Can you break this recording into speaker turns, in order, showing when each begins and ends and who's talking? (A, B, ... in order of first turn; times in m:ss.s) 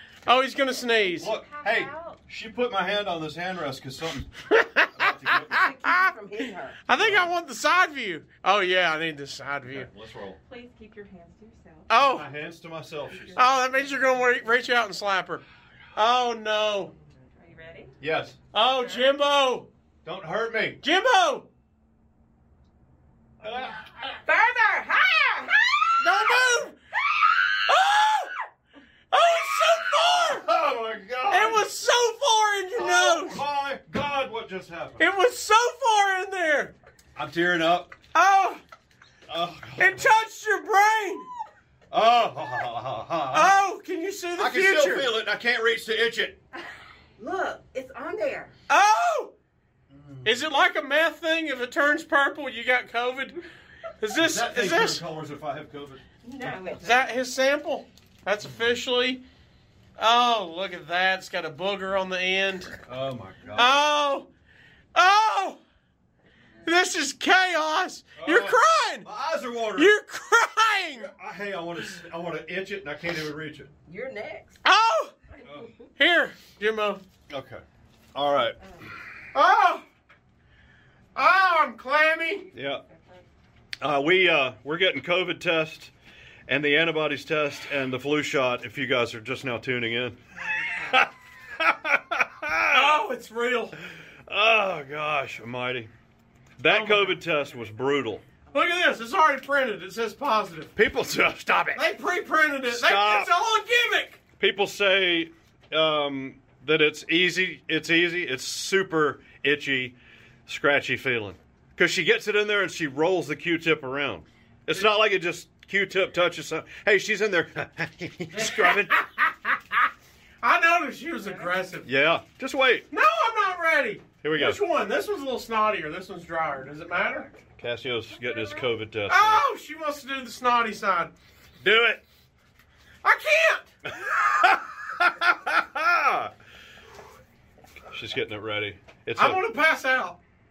0:00.2-0:01.3 A
0:01.2-0:02.2 B
0:01.2-0:04.3 C
0:04.5-0:06.1 A
0:04.9-0:05.7 C
0:05.5-0:06.8 D
0:06.8-0:09.9 A
0:06.9-0:07.3 C
0:09.7-0:10.4 C
0:10.4-0:12.2 B
0:11.9-0:12.3 A
0:12.0-0:13.4 C
0:13.1-0:14.5 B
0:13.4-0:15.4 A
0:15.9-0:16.9 A
0:17.3-0:18.0 B
0:18.0-0:18.4 C
0:18.5-0:19.7 A
0:18.6-0:19.2 B
0:20.0-0:20.8 C
0:20.8-0:21.5 A
0:23.4-0:24.2 C
0:24.2-0:26.0 D
0:26.0-0:26.8 A
0:27.7-0:28.3 A
0:29.1-0:30.5 A
0:30.2-0:31.7 C
0:31.3-0:33.4 A
0:32.7-0:35.1 C
0:35.0-0:36.7 A
0:37.1-0:38.0 C
0:38.1-0:38.6 A
0:39.3-0:40.2 C
0:39.8-0:41.3 A
0:41.9-0:43.6 C
0:43.3-0:45.1 A
0:44.4-0:46.4 C
0:47.2-0:48.5 D
0:48.7-0:49.3 A
0:49.9-0:50.4 C
0:50.2-0:53.4 A
0:54.0-0:55.0 A
0:54.1-0:56.0 C
0:56.2-0:57.2 B
0:56.4-0:56.8 D
0:56.8-0:59.2 A
1:00.0-1:02.8 A
1:02.8-1:03.8 C
1:03.5-1:04.3 A
1:04.9-1:05.6 A
1:06.6-1:09.1 A
1:08.2-1:09.9 C
1:09.8-1:11.1 A
1:11.0-1:13.7 C
1:13.9-1:14.6 D
1:14.6-1:15.1 A
1:15.3-1:15.9 B
1:15.4-1:15.7 C
1:16.0-1:17.0 A
1:17.3-1:17.6 C
1:18.1-1:18.6 C
1:19.3-1:19.8 A
1:21.1-1:22.5 A
1:22.5-1:23.2 B
1:22.5-1:22.8 C
1:23.8-1:25.9 C
1:26.5-1:30.2 C
1:30.7-1:33.1 C
1:32.7-1:33.8 A
1:34.3-1:35.9 C
1:36.6-1:38.2 C
1:36.6-1:37.2 A
1:38.5-1:40.7 A
1:40.7-1:41.9 C
1:41.8-1:44.2 A
1:42.6-1:43.3 C
1:44.4-1:59.1 C
1:58.3-1:59.1 A
2:00.4-2:01.9 A
2:01.2-2:01.6 B
2:01.8-2:02.9 C
2:02.9-2:07.3 A
2:04.2-2:04.6 C
2:07.6-2:09.4 C
2:08.1-2:08.7 B
2:09.1-2:11.1 A
2:11.6-2:12.0 C
2:13.0-2:13.7 A
2:13.8-2:16.3 C
2:17.9-2:19.4 C
2:19.2-2:20.2 A